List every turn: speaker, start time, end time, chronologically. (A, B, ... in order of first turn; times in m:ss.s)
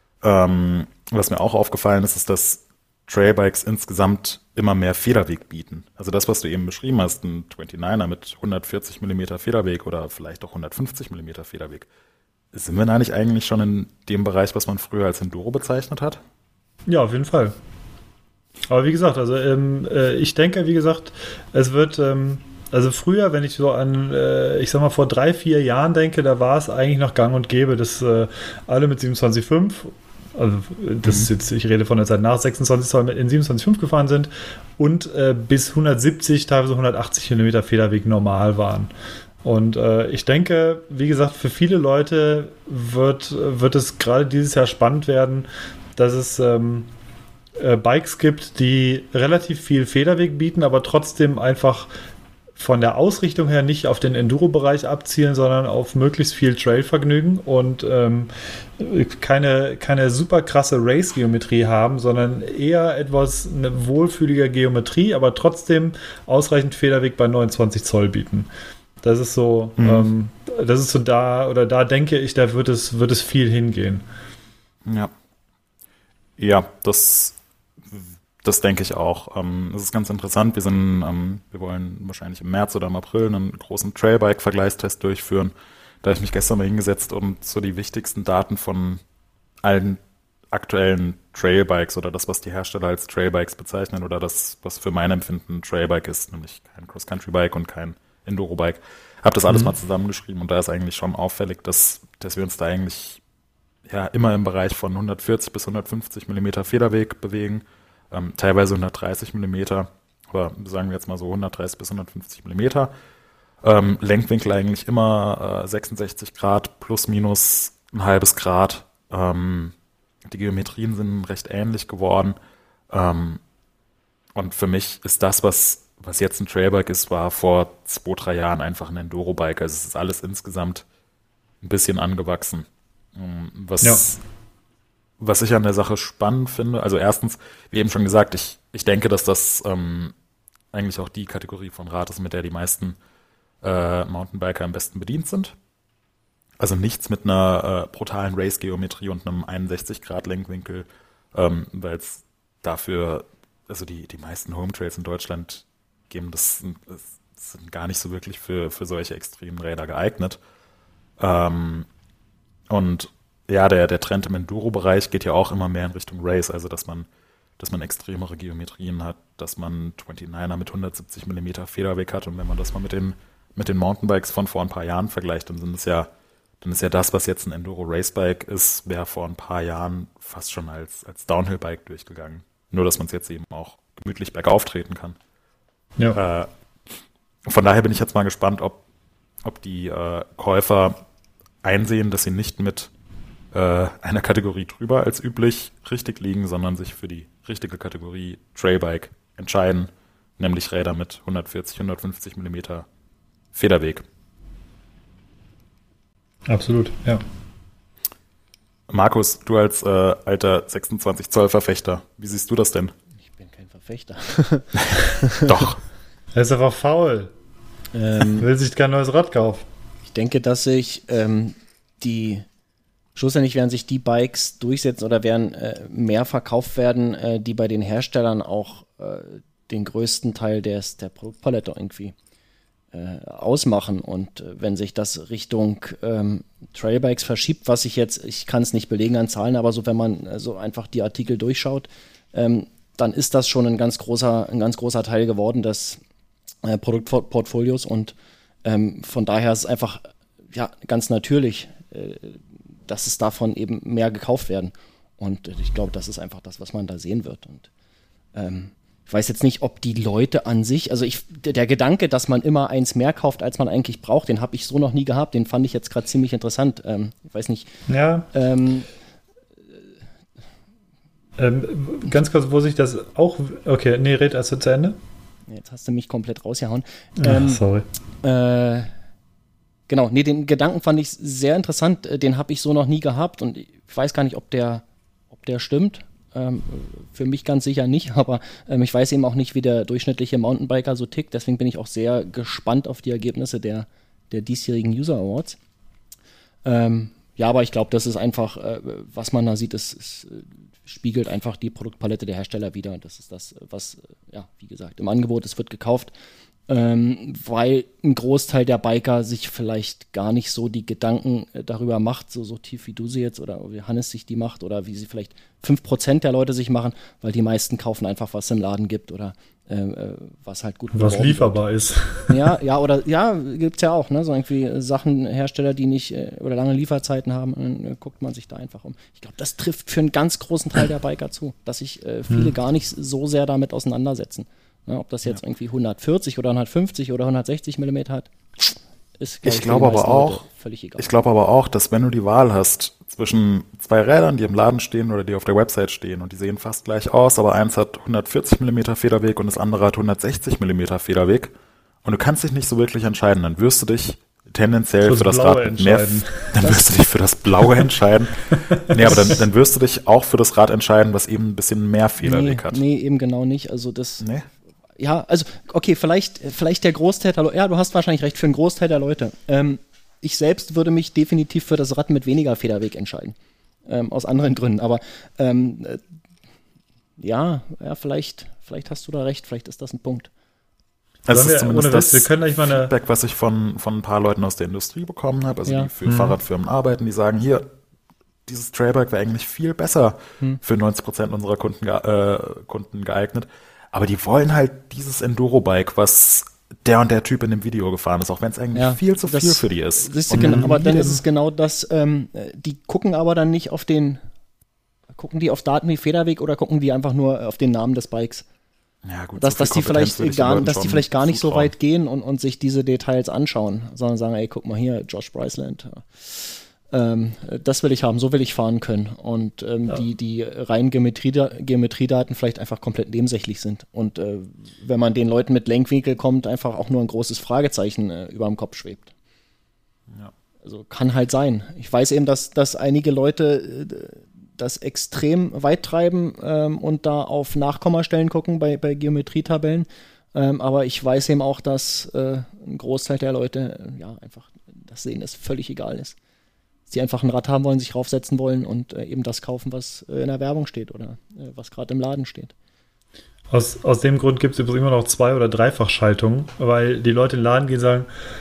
0:00.2-0:11.9 A
0:12.5-0:16.2 A
0:16.9-0:17.5 B
0:18.7-0:38.9 B
0:39.4-0:46.9 B
0:47.6-0:51.9 B
0:52.6-1:08.5 B
1:09.0-1:14.0 B
1:09.8-1:10.1 A
1:14.8-1:15.1 A
1:16.4-1:17.4 A
1:17.9-1:25.5 A
1:26.0-1:29.0 A
1:29.6-1:30.0 A
1:30.5-1:43.2 A
1:43.9-1:52.9 A
1:53.6-1:59.7 A
2:00.3-2:02.4 A
2:02.9-2:03.4 A
2:04.4-2:10.9 A
2:11.6-2:14.2 A
2:15.2-2:20.2 A
2:20.7-2:23.0 A
2:23.6-2:25.6 A
2:26.6-2:40.4 A
2:41.2-2:41.9 A
2:42.7-2:47.1 A
2:47.6-2:56.1 A
2:56.6-3:05.2 A
3:06.1-3:06.5 A
3:07.5-3:08.8 A
3:09.4-3:11.0 A
3:11.6-3:12.9 A
3:13.5-3:22.9 A
3:23.5-3:24.0 A
3:26.5-3:27.2 B
3:28.9-3:32.9 A
3:33.2-3:35.5 C
3:35.4-3:35.8 A
3:36.3-3:37.3 B
3:37.9-3:38.5 C
3:38.4-3:39.6 B
3:40.1-3:42.5 C
3:43.2-3:52.2 C
3:52.9-4:06.0 C
4:06.6-4:17.7 C
4:18.4-4:27.7 C
4:27.9-4:28.3 B
4:28.3-4:28.9 C
4:31.4-4:35.0 B
4:35.5-4:37.6 C
4:37.2-4:37.8 B
4:38.2-4:38.9 C
4:39.9-4:55.6 C
4:56.6-5:06.1 C
5:06.7-5:21.6 C
5:20.9-5:22.5 B
5:22.3-5:38.3 C
5:39.2-5:41.1 C
5:39.4-5:40.4 A
5:41.0-5:51.5 A
5:52.0-5:58.4 A
5:55.0-5:56.6 B
5:58.9-5:59.3 B
5:58.9-6:02.8 A
6:02.2-6:04.2 C
6:04.2-6:04.5 A
6:05.0-6:13.4 C
6:13.9-6:16.0 C
6:17.2-6:20.3 C
6:21.3-6:27.7 A
6:21.3-6:22.9 B
6:25.7-6:25.9 C
6:26.1-6:26.4 B
6:28.5-6:41.2 A
6:38.7-6:44.2 C
6:40.3-6:40.8 B
6:45.2-6:48.5 C
6:49.1-6:51.7 A
6:49.4-7:09.1 C
7:10.6-7:26.2 C
7:26.9-7:32.5 C
7:33.5-7:38.1 B